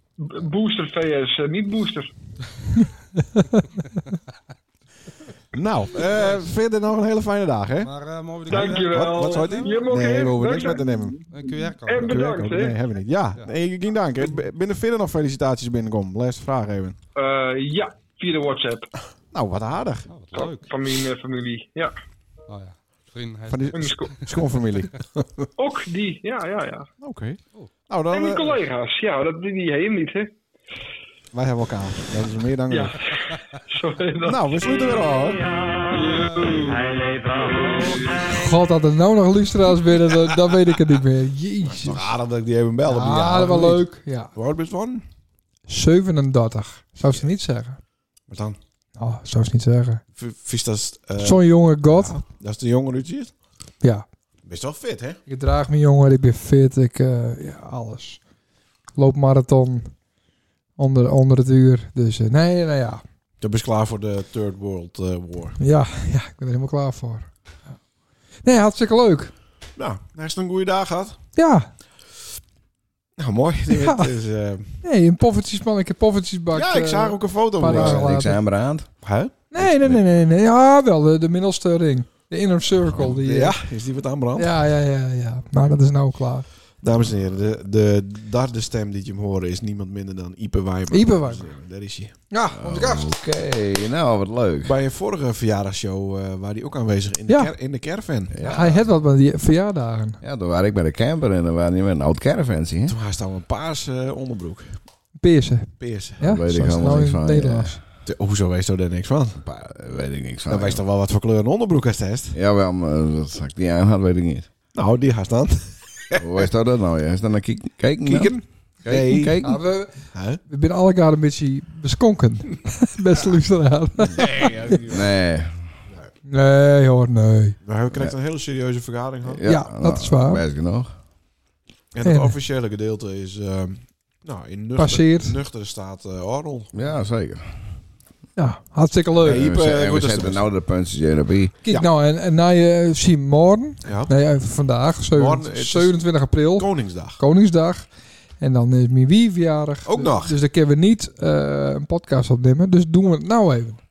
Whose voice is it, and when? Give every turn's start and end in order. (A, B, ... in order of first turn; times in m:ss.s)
0:00.2-0:02.1 A
0:05.5-0:07.9 B
0:06.0-0:06.5 C
0:07.8-0:09.9 C
0:08.5-0:11.2 B
0:08.5-0:12.8 A
0:11.3-0:12.3 C
0:12.0-0:16.9 B
0:17.2-0:18.9 A
0:19.3-0:20.1 B
0:20.1-0:20.8 C
0:20.3-0:21.9 A
0:22.5-0:24.4 C
0:23.5-0:25.5 B
0:23.7-0:24.2 A
0:25.6-0:26.9 A
0:27.0-0:28.5 B
0:28.1-0:30.3 A
0:31.3-0:33.0 B
0:32.7-0:34.6 A
0:34.2-0:35.4 B
0:35.2-0:38.4 D
0:36.0-0:36.8 A
0:36.2-0:36.6 C
0:38.3-0:42.1 E
0:41.7-0:45.0 B
0:42.9-0:44.3 E
0:45.7-0:47.8 E
0:48.3-0:48.6 B
0:49.0-0:50.0 E
0:50.2-0:53.3 B
0:51.2-0:52.2 E
0:54.4-0:55.2 B
0:55.3-0:58.2 E
0:59.0-0:59.9 E
1:00.8-1:03.0 E
1:03.4-1:05.6 B
1:05.6-1:07.3 E
1:08.4-1:09.3 E
1:09.8-1:11.2 B
1:11.4-1:11.7 E
1:13.2-1:14.8 B
1:13.7-1:14.1 E
1:14.8-1:18.4 E
1:16.5-1:18.1 B
1:17.6-1:18.9 F
1:19.0-1:20.0 B
1:19.5-1:23.6 E
1:19.6-1:19.9 F
1:23.0-1:24.6 B
1:24.4-1:26.5 E
1:26.8-1:32.1 B
1:30.9-1:31.5 E
1:32.3-1:33.1 E
1:32.5-1:34.8 F
1:34.6-1:38.8 B
1:38.3-1:38.8 F
1:38.4-1:40.2 E
1:40.2-1:43.0 F
1:42.8-1:44.8 B
1:45.2-1:47.8 E
1:45.8-1:47.0 B
1:46.2-1:47.8 F
1:48.0-1:49.4 B
1:49.4-1:50.8 F
1:50.5-1:52.4 B
1:52.3-1:54.5 F
1:54.7-1:56.5 B
1:56.2-1:59.6 F
1:58.0-1:59.4 B
1:59.4-2:04.8 E
2:00.1-2:00.4 B
2:04.0-2:05.1 B
2:04.8-2:05.7 F
2:06.2-2:07.6 E
2:07.6-2:09.4 B
2:09.2-2:10.9 F
2:09.4-2:10.4 E
2:11.9-2:16.7 B
2:12.0-2:12.3 E
2:14.8-2:15.4 E
2:16.7-2:17.6 F
2:18.4-2:19.4 E
2:19.2-2:20.4 B
2:19.2-2:21.6 F
2:21.6-2:27.8 E
2:23.8-2:24.1 B
2:25.1-2:26.0 B
2:26.6-2:27.2 B
2:28.4-2:33.8 E
2:29.8-2:30.4 B